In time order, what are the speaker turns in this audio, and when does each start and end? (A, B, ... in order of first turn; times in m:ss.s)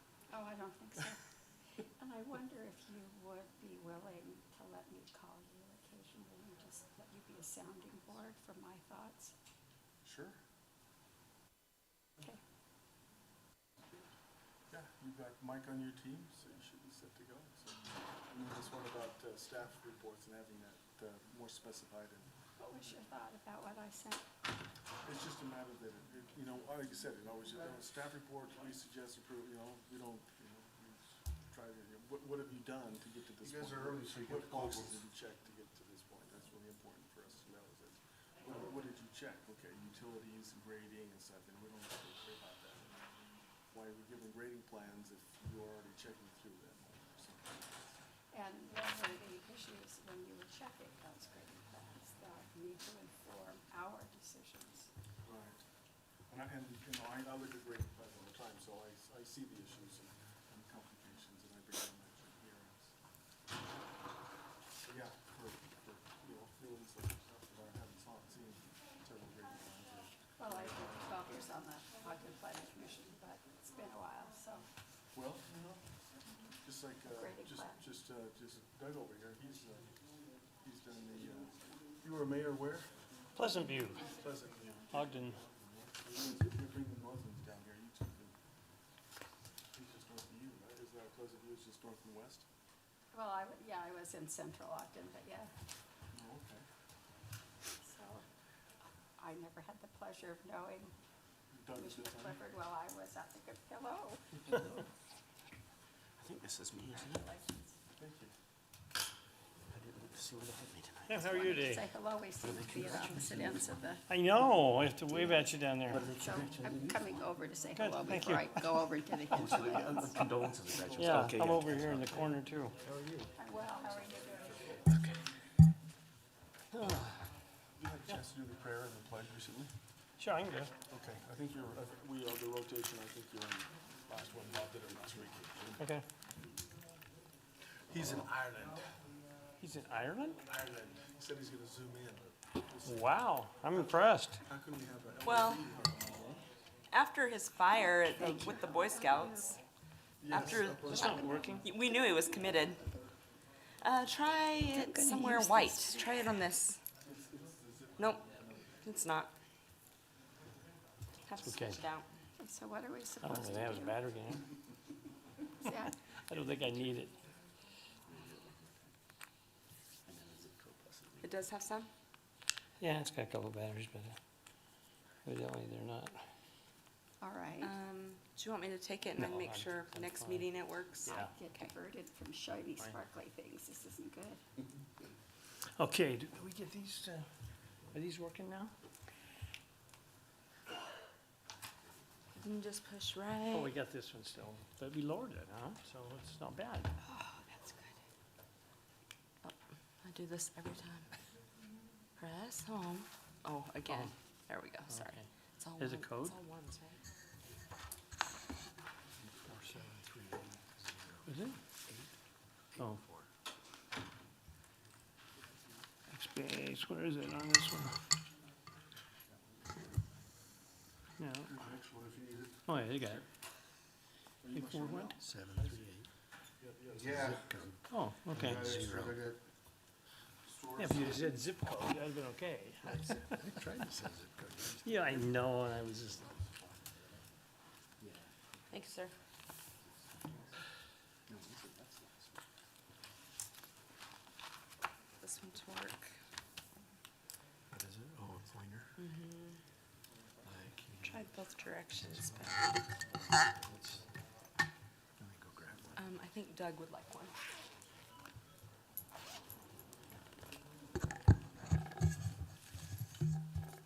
0:00.3-0:01.2 A
0:01.8-0:09.3 A
0:10.0-0:10.4 B
0:14.7-0:22.3 B
0:22.6-0:24.2 A
0:25.0-0:42.9 B
0:33.9-0:34.8 C
0:43.7-0:48.0 B
0:48.3-0:54.9 A
0:55.2-0:55.6 B
0:56.3-1:02.9 B
1:04.8-1:11.2 B
1:10.4-1:14.6 A
1:15.1-1:15.8 B
1:16.6-1:19.9 B
1:17.1-1:17.8 A
1:20.6-1:22.9 B
1:23.4-1:24.1 D
1:24.0-1:24.9 B
1:24.9-1:25.4 D
1:25.9-1:28.3 B
1:29.7-1:32.4 B
1:33.1-1:35.5 A
1:36.1-1:36.6 B
1:37.8-1:38.2 A
1:39.2-1:40.9 A
1:41.5-1:42.4 B
1:41.8-1:44.4 A
1:46.2-1:47.3 E
1:47.2-1:47.7 A
1:48.0-1:48.3 B
1:49.7-1:51.3 E
1:51.1-1:51.8 D
1:51.2-1:54.0 A
1:52.4-1:53.8 E
1:54.1-1:56.1 D
1:55.1-2:00.3 A
1:55.9-1:57.0 E
1:57.7-1:58.6 D
1:59.3-2:02.3 E
2:00.9-2:02.8 D
2:02.8-2:03.3 E
2:03.4-2:04.8 A
2:06.7-2:07.2 D
2:07.8-2:09.7 B
2:10.2-2:10.7 D
2:10.9-2:15.8 B
2:15.8-2:16.0 D
2:17.9-2:18.9 B
2:19.6-2:20.4 D
2:20.4-2:23.0 B
2:22.8-2:24.4 D
2:23.7-2:26.3 B
2:25.2-2:25.6 F
2:26.9-2:29.6 F
2:28.1-2:29.6 A
2:30.2-2:31.0 B
2:30.3-2:32.8 F
2:30.9-2:31.6 D
2:33.8-2:36.8 F
2:34.6-2:36.3 A
2:37.0-2:38.8 B
2:38.0-2:38.2 F
2:38.8-2:39.3 F
2:41.2-2:42.0 F
2:41.4-2:41.8 D
2:42.4-2:44.0 A
2:43.2-2:44.4 D
2:45.6-2:46.0 A
2:46.2-2:47.1 D
2:48.1-2:48.7 E
2:50.0-2:51.3 E
2:51.2-2:51.9 F
2:52.8-2:54.2 D
2:55.2-2:56.2 D
2:57.2-2:57.7 A
2:57.6-3:01.7 F
2:59.2-3:00.5 D
3:01.0-3:01.3 D
3:01.1-3:04.4 A
3:05.7-3:07.3 D
3:07.9-3:08.7 D
3:12.3-3:13.7 F
3:13.5-3:16.9 D
3:17.0-3:17.7 F
3:19.4-3:21.1 F
3:22.2-3:27.0 F
3:23.8-3:24.1 D
3:24.9-3:26.4 D
3:29.2-3:31.3 E
3:31.2-3:31.6 D
3:32.8-3:33.3 E
3:36.1-3:38.0 D
3:41.2-3:41.5 D
3:42.0-3:42.5 C
3:42.7-3:43.2 D
3:44.4-3:45.7 B
3:44.5-3:45.2 D
3:45.3-3:46.1 E
3:46.6-3:47.3 B
3:47.2-3:47.4 C
3:47.2-3:47.7 E
3:47.9-3:48.8 D
3:48.3-3:49.3 C
3:48.4-3:49.2 E
3:50.8-3:53.6 D
3:50.8-3:51.1 C
3:53.0-3:55.2 E
3:54.8-3:56.3 D
3:56.6-3:56.9 E
3:58.0-3:58.7 E
3:58.7-3:59.1 F
4:01.3-4:02.4 E
4:05.2-4:06.1 F
4:07.7-4:08.9 E
4:09.0-4:09.6 F
4:10.4-4:11.3 E
4:11.0-4:12.5 F
4:12.0-4:12.7 E
4:13.4-4:14.0 E
4:15.2-4:16.0 E
4:16.0-4:17.3 F